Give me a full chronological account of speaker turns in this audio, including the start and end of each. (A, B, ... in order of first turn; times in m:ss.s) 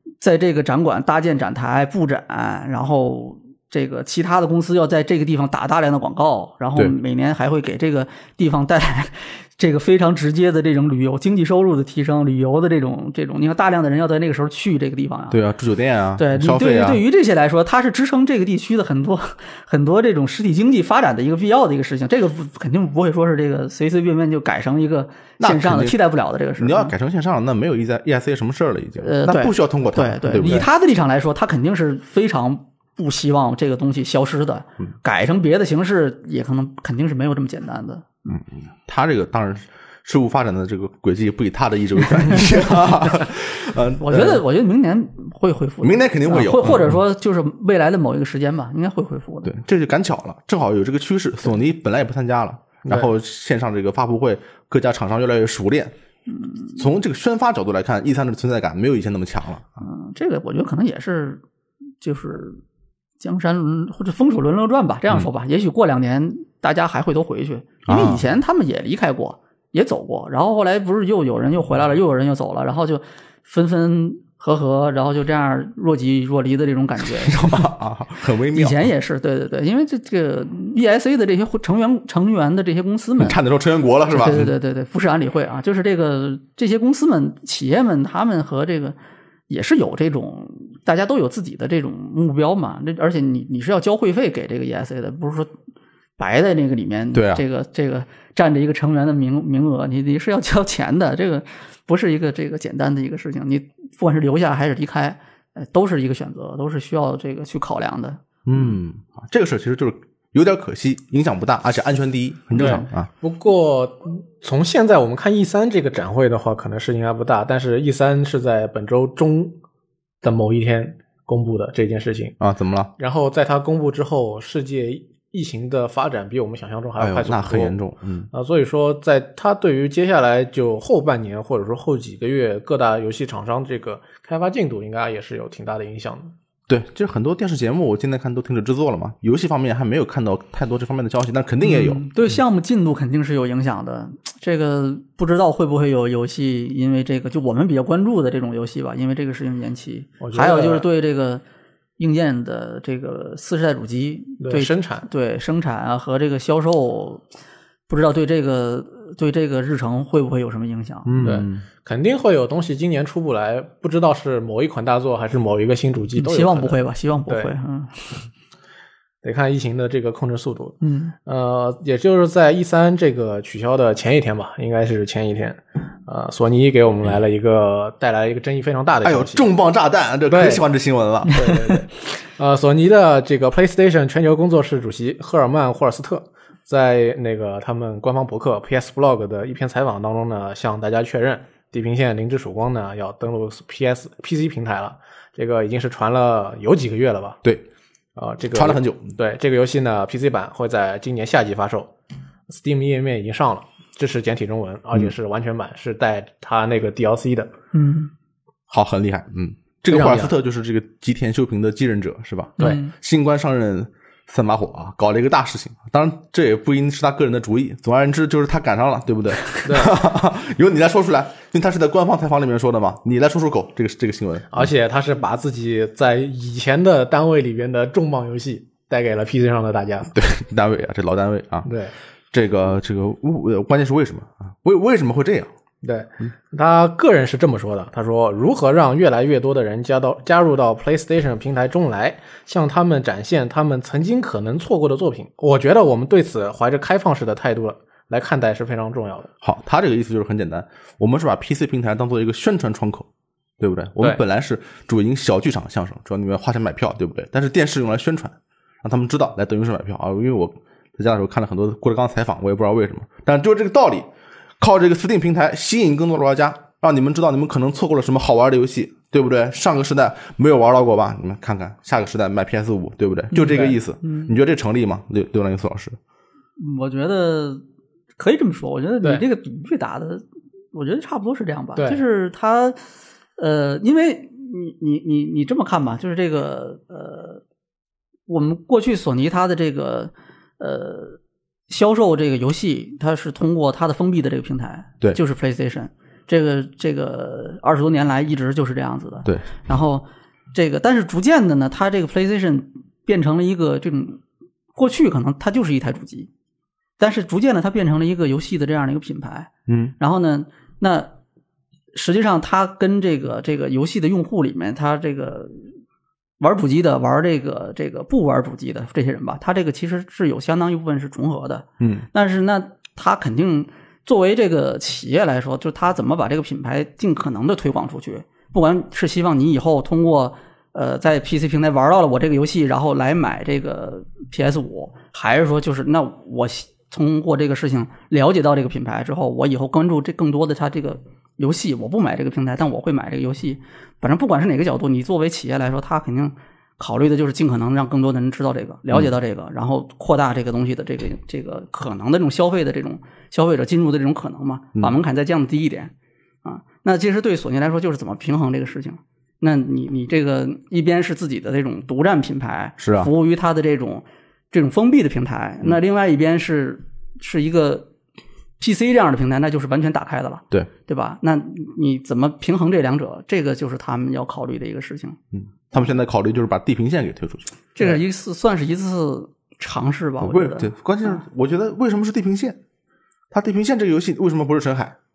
0:00.2-0:15.4 A
0:15.3-0:17.0 B
0:16.2-0:26.9 A
0:25.4-0:26.0 B
0:26.6-0:30.7 B
0:29.0-0:38.4 A
0:38.3-0:44.4 B
0:44.0-0:49.5 A
0:45.8-0:47.0 B
0:49.4-0:56.0 B
0:56.8-0:59.7 B
0:59.8-1:01.4 A
1:02.0-1:02.6 A
1:03.2-1:17.6 A
1:07.9-1:08.2 B
1:17.2-1:18.9 B
1:18.5-1:23.4 A
1:23.2-1:24.5 B
1:24.1-1:29.0 A
1:29.5-1:35.5 A
1:36.2-1:48.2 A
1:37.1-1:37.4 B
1:48.5-1:53.1 B
1:52.5-1:59.6 C
1:52.6-1:52.9 A
2:00.2-2:02.4 C
2:02.4-2:02.9 B
2:03.0-2:07.8 C
2:07.0-2:08.3 B
2:08.3-2:16.4 C
2:16.7-2:22.0 B
2:21.6-2:31.4 A
2:30.2-2:30.8 C
2:32.0-2:37.2 A
2:34.4-2:35.1 C
2:37.9-2:41.2 A
2:41.1-2:41.6 B
2:41.2-2:47.5 C
2:46.2-2:48.3 A
2:49.2-2:59.5 C
2:50.8-2:51.1 A
2:59.0-3:01.8 B
3:00.3-3:00.6 C
3:01.3-3:17.4 C
3:18.2-3:21.9 C
3:18.5-3:19.1 B
3:22.5-3:27.5 C
3:27.7-3:28.1 A
3:28.7-3:44.7 B
3:29.9-3:30.3 C
3:32.6-3:32.9 A
3:39.6-3:40.0 C
3:44.5-3:50.1 C
3:50.1-3:51.7 B
3:51.7-3:51.9 C
3:52.3-3:55.5 B
3:55.8-4:09.3 C
4:09.4-4:13.1 B
4:13.6-4:24.1 B
4:24.6-4:36.0 B
4:33.3-4:34.4 A
4:33.4-4:33.8 C
4:36.6-4:37.6 A
4:38.2-4:42.8 A
4:41.8-4:42.0 C
4:43.4-4:47.4 A
4:48.3-4:51.2 A
4:51.7-5:04.2 A
5:04.8-5:06.3 A
5:07.0-5:11.1 A
5:09.7-5:09.9 B
5:11.9-5:15.7 A
5:16.4-5:55.9 A
5:21.8-5:22.1 B
5:56.4-6:07.9 A
6:02.8-6:03.1 B
6:08.6-6:15.2 A
6:15.3-6:18.0 B
6:17.8-6:21.2 A
6:20.2-6:22.6 B
6:23.3-6:25.0 B